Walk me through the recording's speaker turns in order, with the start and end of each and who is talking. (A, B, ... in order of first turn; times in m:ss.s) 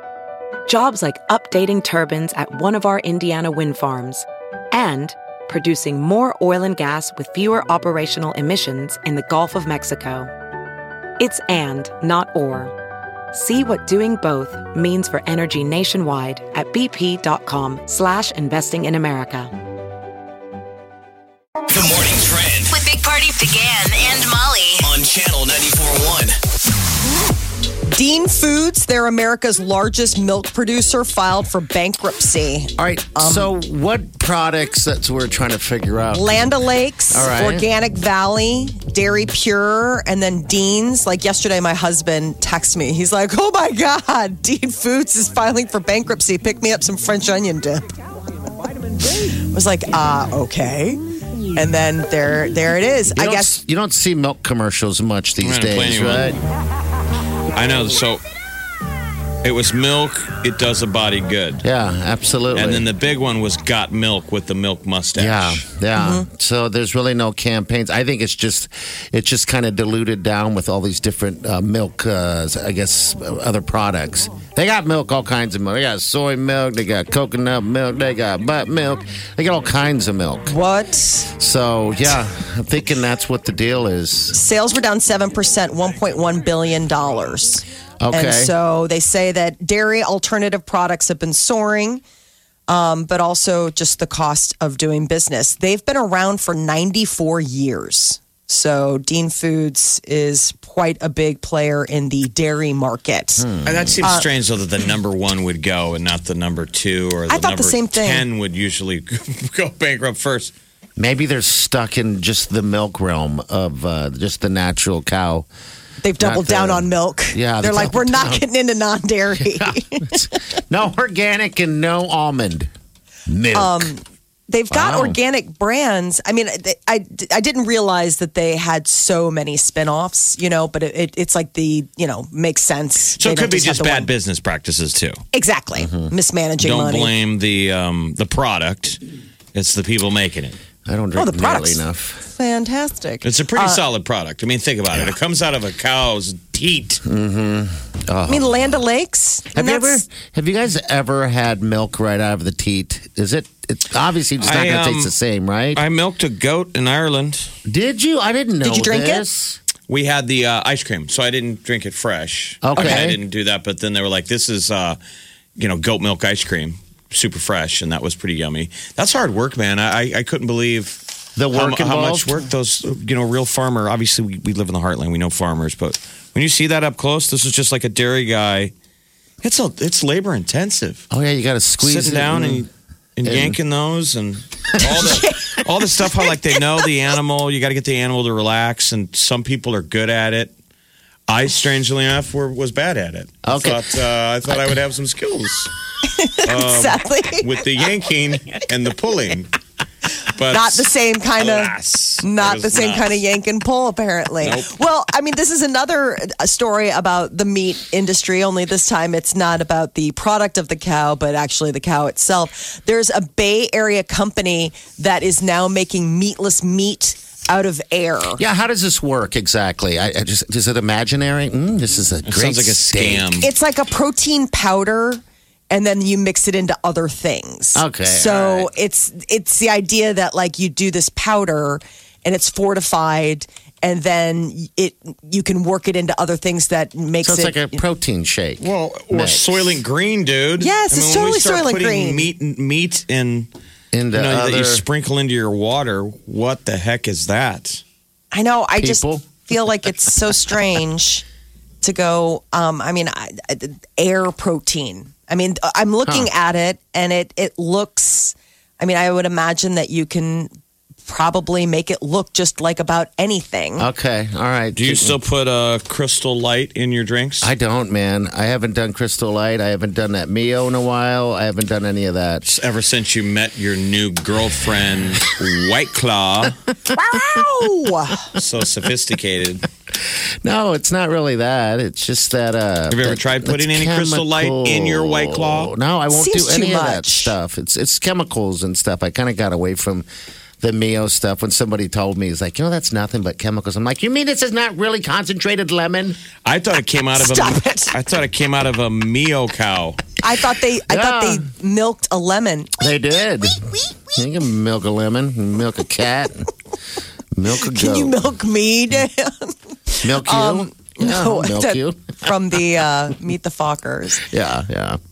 0:00.7-0:10.3 A
0:11.2-0:12.7 A
0:13.3-0:19.5 A
0:21.7-0:22.7 B
0:22.7-0:24.8 C
0:24.8-0:26.4 B
0:27.9-0:33.5 D
0:32.8-0:36.4 E
0:36.1-0:48.0 D
0:37.1-0:37.7 E
0:49.5-0:51.0 D
0:51.6-0:53.6 D
0:53.1-0:56.4 E
0:55.4-0:56.3 F
0:57.5-0:58.2 F
0:59.4-1:01.6 F
1:01.6-1:02.9 E
1:02.5-1:05.6 F
1:05.2-1:20.6 E
1:06.0-1:06.3 D
1:20.5-1:21.3 D
1:21.4-1:24.4 E
1:24.3-1:32.0 D
1:28.0-1:28.5 E
1:32.7-1:43.5 D
1:43.4-1:44.1 E
1:43.6-1:50.5 F
1:44.0-1:44.3 D
1:47.3-1:48.3 D
1:51.0-1:55.5 E
1:56.0-2:00.2 D
1:56.2-1:58.4 E
1:59.4-2:02.7 E
2:03.3-2:03.9 E
2:03.5-2:14.1 D
2:04.7-2:05.2 E
2:13.2-2:15.2 F
2:15.3-2:17.1 D
2:15.8-2:16.1 E
2:16.6-2:19.0 F
2:19.5-2:20.6 F
2:20.8-2:22.2 E
2:21.2-2:23.8 D
2:23.2-2:27.0 F
2:27.0-2:28.8 E
2:28.3-2:30.0 D
2:29.5-2:35.8 E
2:34.4-2:35.1 F
2:35.8-2:37.5 F
2:37.7-2:39.6 E
2:38.6-2:39.2 D
2:39.9-2:45.0 F
2:42.6-2:43.2 E
2:42.8-2:43.0 D
2:45.6-2:51.0 F
2:51.4-2:52.5 E
2:51.5-2:58.7 F
2:59.4-3:01.0 F
3:01.1-3:02.7 E
3:01.8-3:10.5 F
3:03.2-3:03.6 E
3:04.8-3:06.9 D
3:11.3-3:15.7 F
3:13.4-3:13.8 E
3:16.0-3:17.5 D
3:16.4-3:19.6 F
3:20.3-3:23.2 F
3:20.5-3:38.4 D
3:24.4-3:24.7 F
3:38.4-3:43.3 E
3:42.3-3:43.5 F
3:43.4-3:57.8 D
3:47.8-3:48.7 E
3:57.2-3:59.8 E
3:58.6-4:03.5 F
4:00.6-4:02.3 D
4:03.9-4:04.8 E
4:04.1-4:07.8 F
4:08.3-4:11.2 D
4:08.8-4:09.3 E
4:11.8-4:20.5 D
4:21.1-4:23.9 D
4:23.8-4:25.2 E
4:24.8-4:27.5 F
4:27.4-4:32.5 E
4:32.4-4:36.6 F
4:36.9-4:38.3 D
4:38.3-4:39.7 F
4:40.4-4:50.1 E
4:42.9-4:45.7 F
4:46.1-4:47.4 D
4:50.6-4:56.2 E
4:56.4-5:00.0 F
4:57.2-4:57.9 D
5:00.2-5:02.8 D
5:00.9-5:01.5 E
5:02.8-5:06.5 E
5:03.5-5:04.2 D
5:07.4-5:08.2 E
5:07.6-5:14.2 D
5:10.0-5:12.1 E
5:14.2-5:15.0 E